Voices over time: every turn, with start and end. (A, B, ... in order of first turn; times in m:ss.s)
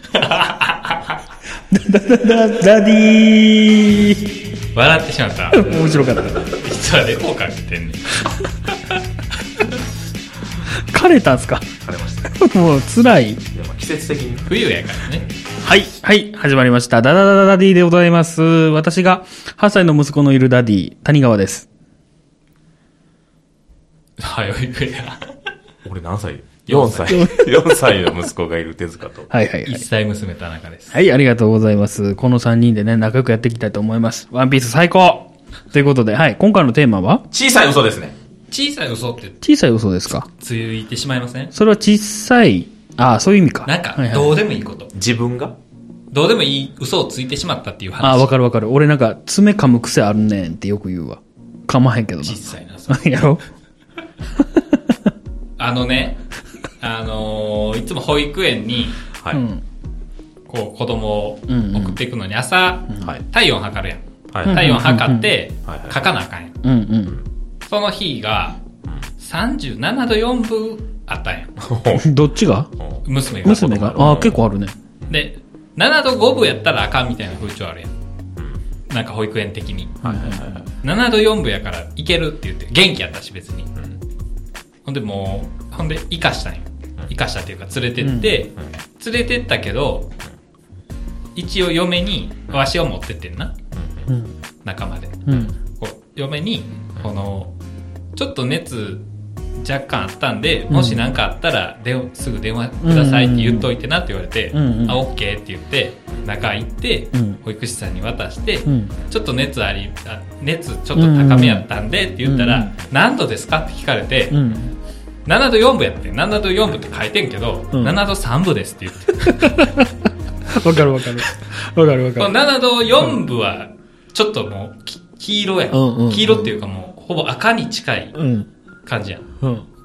0:00.1-0:01.0 A
0:01.7-0:04.2 B
0:04.7-0:08.4 A
0:05.5-0:06.5 B
0:10.9-0:11.7 B
0:11.8-0:12.4 C
0:12.3-0:13.4 B
0:13.5-0:14.6 C
0:14.5-0:15.2 A
0:15.1-0:15.4 C
0:15.6-0:21.7 B
0:24.2-0:25.2 A
0:25.8-0:29.3 C
0:26.6-0:27.3 A
0:27.1-0:28.1 B
0:29.3-0:29.8 B
0:29.6-0:31.0 A
0:30.9-0:37.2 B
0:37.3-0:38.1 C
0:38.5-0:39.4 A
0:39.4-0:40.3 B
0:40.1-0:41.5 A
0:41.5-0:44.4 B
0:43.6-0:44.9 A
0:44.9-0:45.6 C
0:46.1-0:48.3 A
0:48.0-0:53.4 B
0:52.2-0:53.2 A
0:55.6-0:56.2 A
0:56.8-0:59.0 A
0:59.2-0:59.4 C
0:59.3-0:59.6 B
1:00.5-1:06.6 A
1:01.5-1:02.0 B
1:04.3-1:04.7 C
1:04.4-1:05.3 B
1:05.6-1:06.0 C
1:06.6-1:07.2 B
1:07.6-1:08.6 A
1:09.2-1:11.5 A
1:11.6-1:12.1 C
1:11.9-1:12.7 B
1:12.8-1:14.4 C
1:13.0-1:14.1 A
1:13.4-1:14.7 B
1:15.1-1:17.9 A
1:18.9-1:20.1 A
1:20.0-1:20.7 C
1:20.0-1:20.6 B
1:20.8-1:23.7 A
1:24.8-1:30.1 A
1:28.0-1:28.4 B
1:31.4-1:33.5 A
1:33.8-1:34.1 C
1:34.1-1:34.3 B
1:34.6-1:37.5 A
1:35.3-1:35.5 B
1:38.1-1:39.0 A
1:39.6-1:54.4 A
1:40.7-1:41.1 B
1:42.8-1:43.7 B
1:44.5-1:45.0 B
1:47.1-1:47.4 B
1:48.6-1:48.9 B
1:50.9-1:51.7 B
1:52.2-1:52.7 B
1:54.3-1:54.7 B
1:55.2-1:59.8 A
1:56.7-1:57.0 C
1:57.7-1:58.0 B
1:59.4-1:59.9 B
2:00.5-2:02.3 B
2:02.2-2:08.2 A
2:05.7-2:06.5 B
2:08.1-2:08.5 B
2:08.8-2:09.2 A